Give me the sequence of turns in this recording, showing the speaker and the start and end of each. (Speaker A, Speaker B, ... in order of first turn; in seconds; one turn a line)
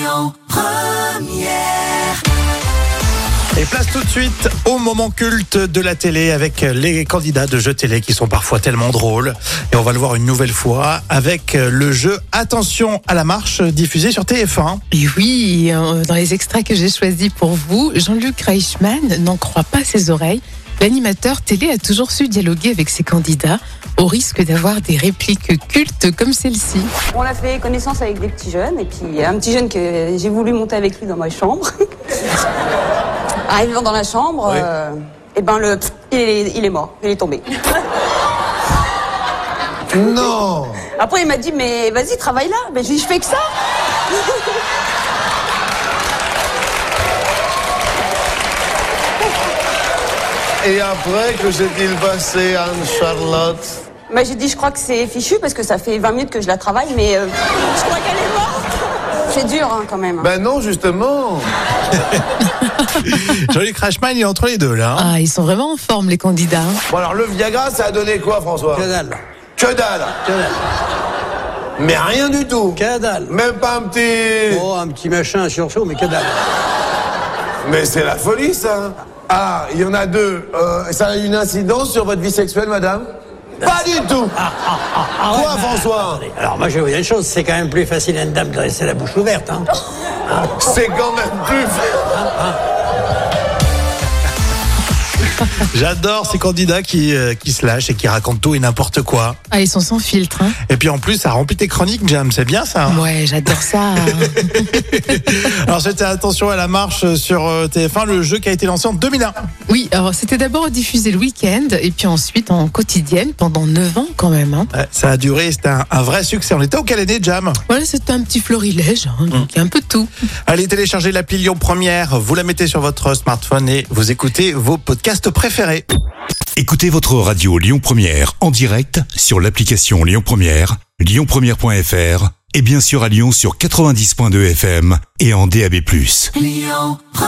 Speaker A: 3.5-14.8
Speaker B: 14.9-26.9
Speaker C: 27.1-31.7
Speaker C: 33.5-37.6
Speaker D: 39.9-40.9
Speaker C: 41.0-43.5
Speaker D: 50.6-53.8
Speaker C: 54.1-58.8
Speaker C: 59.3-60.3
Speaker D: 60.2-61.5
Speaker A: 63.0-65.1
Speaker B: 65.0-66.8
Speaker D: 66.9-68.9
Speaker E: 68.7-69.2
Speaker D: 69.6-70.2
Speaker E: 70.2-70.6
Speaker D: 71.8-74.7
Speaker E: 72.8-73.3
Speaker E: 74.5-76.4
Speaker D: 77.6-83.1
Speaker D: 83.6-84.4
Speaker E: 84.4-89.7
Speaker D: 85.2-86.2
Speaker D: 90.5-92.0
Speaker A: 95.6-99.4
Speaker B: 99.5-100.6
Speaker A: 100.6-103.1
Speaker B: 102.9-104.6
Speaker A: 104.2-109.4
Speaker B: 109.7-114.7
Speaker A: 114.7-117.6
Speaker B: 117.7-120.1
Speaker A: 120.5-125.9
Speaker F: 126.6-136.3
Speaker B: 136.6-136.9